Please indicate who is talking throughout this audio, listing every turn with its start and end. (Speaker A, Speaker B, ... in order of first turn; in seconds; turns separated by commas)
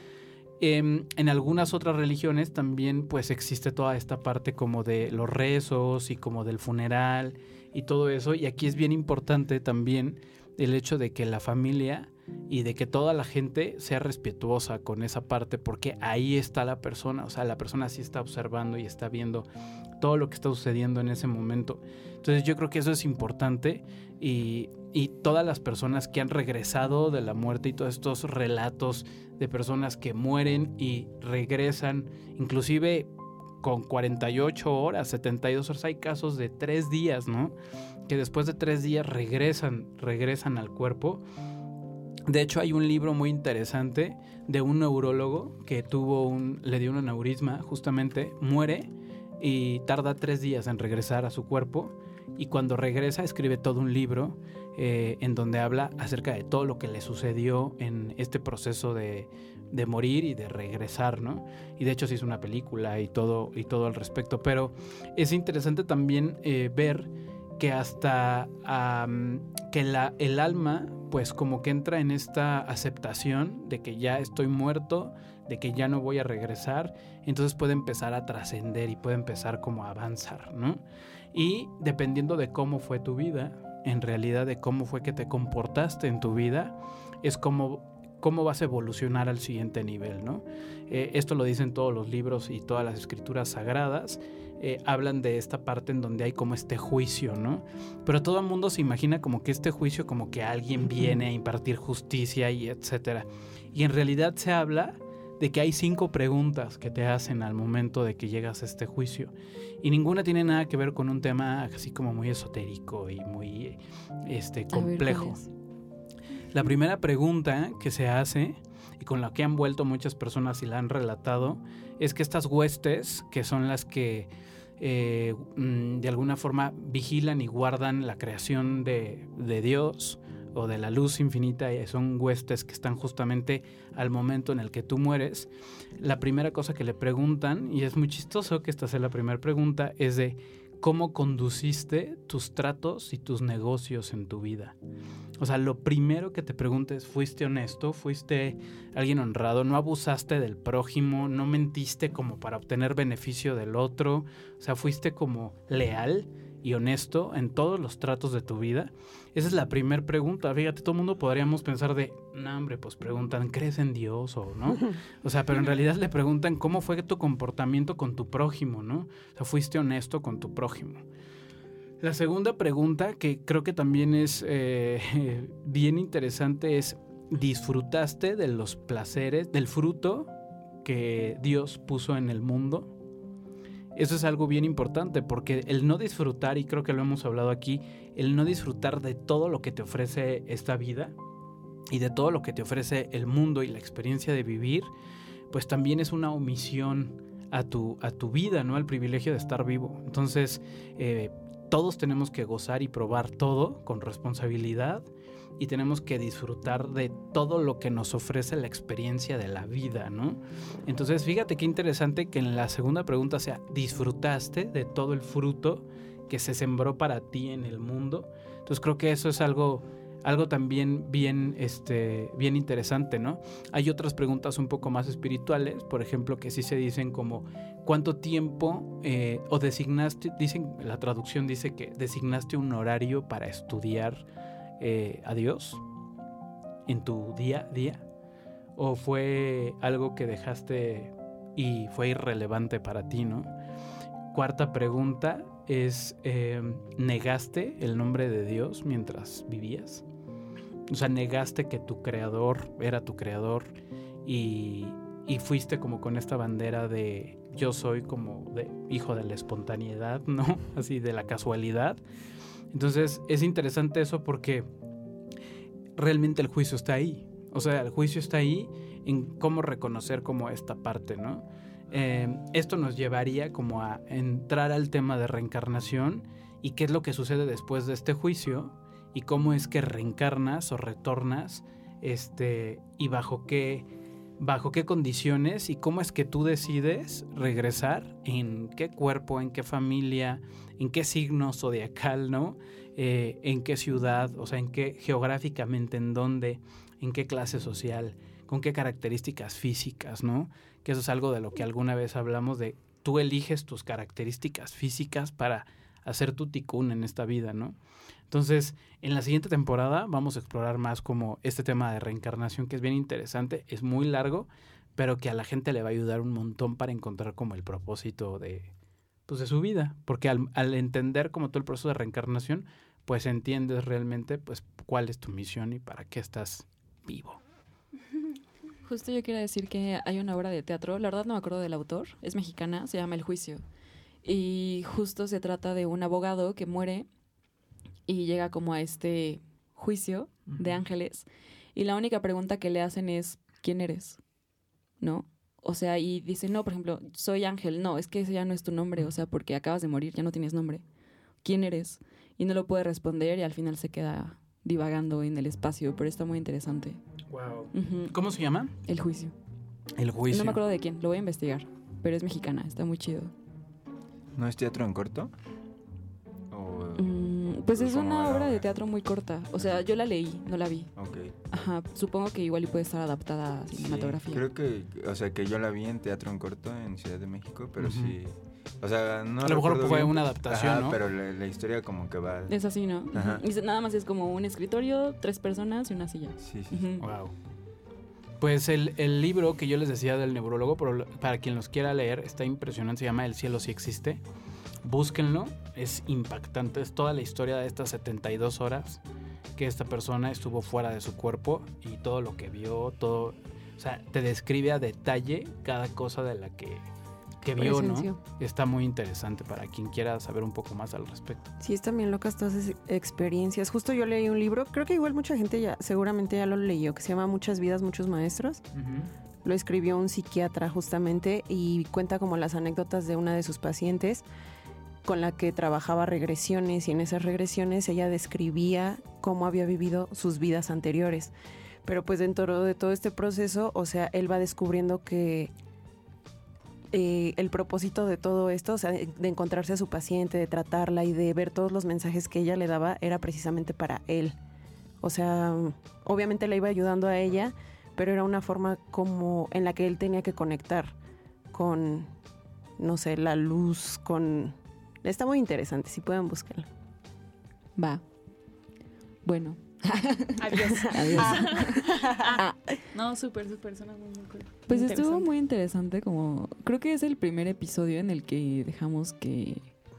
Speaker A: 0.6-19.5, Speaker A: 20.0-33.1, Speaker A: 33.6-37.5, Speaker A: 38.1-41.2, Speaker A: 42.3-48.9, Speaker A: 49.4-80.8, Speaker A: 81.3-115.4, Speaker B: 114.7-115.5, Speaker A: 116.5-144.7, Speaker A: 145.4-171.0, Speaker A: 172.0-180.3, Speaker A: 180.8-182.9, Speaker A: 183.9-191.1, Speaker A: 191.9-194.9, Speaker A: 195.5-205.1, Speaker A: 205.6-234.2, Speaker A: 234.8-235.8, Speaker A: 236.8-238.0, Speaker A: 238.8-243.5, Speaker A: 244.3-250.0, Speaker A: 250.9-253.7, Speaker A: 254.2-262.0, Speaker A: 262.7-264.6, Speaker A: 266.0-283.9, Speaker A: 284.4-307.7, Speaker A: 308.3-318.7, Speaker A: 319.3-327.4, Speaker B: 328.8-333.6, Speaker B: 334.2-337.1, Speaker B: 338.1-344.2, Speaker B: 345.0-350.8, Speaker B: 351.4-357.0, Speaker A: 357.3-358.7, Speaker B: 357.7-358.1, Speaker B: 358.8-359.3, Speaker A: 360.0-360.6, Speaker B: 360.3-363.3, Speaker C: 364.4-365.3, Speaker C: 366.5-368.6, Speaker B: 366.9-370.9, Speaker C: 370.9-371.3, Speaker B: 371.5-374.4, Speaker C: 373.7-382.5, Speaker A: 377.8-378.1, Speaker A: 379.4-381.0, Speaker B: 382.5-387.1, Speaker C: 383.1-383.4, Speaker C: 386.4-386.9, Speaker A: 387.0-387.3, Speaker A: 388.4-394.2, Speaker A: 394.8-399.0, Speaker A: 399.6-406.8, Speaker A: 407.4-411.5, Speaker D: 407.6-408.2, Speaker D: 411.6-418.6, Speaker A: 418.7-419.1, Speaker D: 419.4-424.2, Speaker D: 425.0-431.3, Speaker D: 431.8-435.5, Speaker D: 436.9-444.4, Speaker D: 445.0-450.9, Speaker D: 451.5-452.1, Speaker D: 452.8-456.7, Speaker B: 457.7-458.0, Speaker B: 459.2-462.6, Speaker E: 460.4-462.4, Speaker D: 461.9-462.3, Speaker E: 462.9-465.3, Speaker B: 464.7-469.7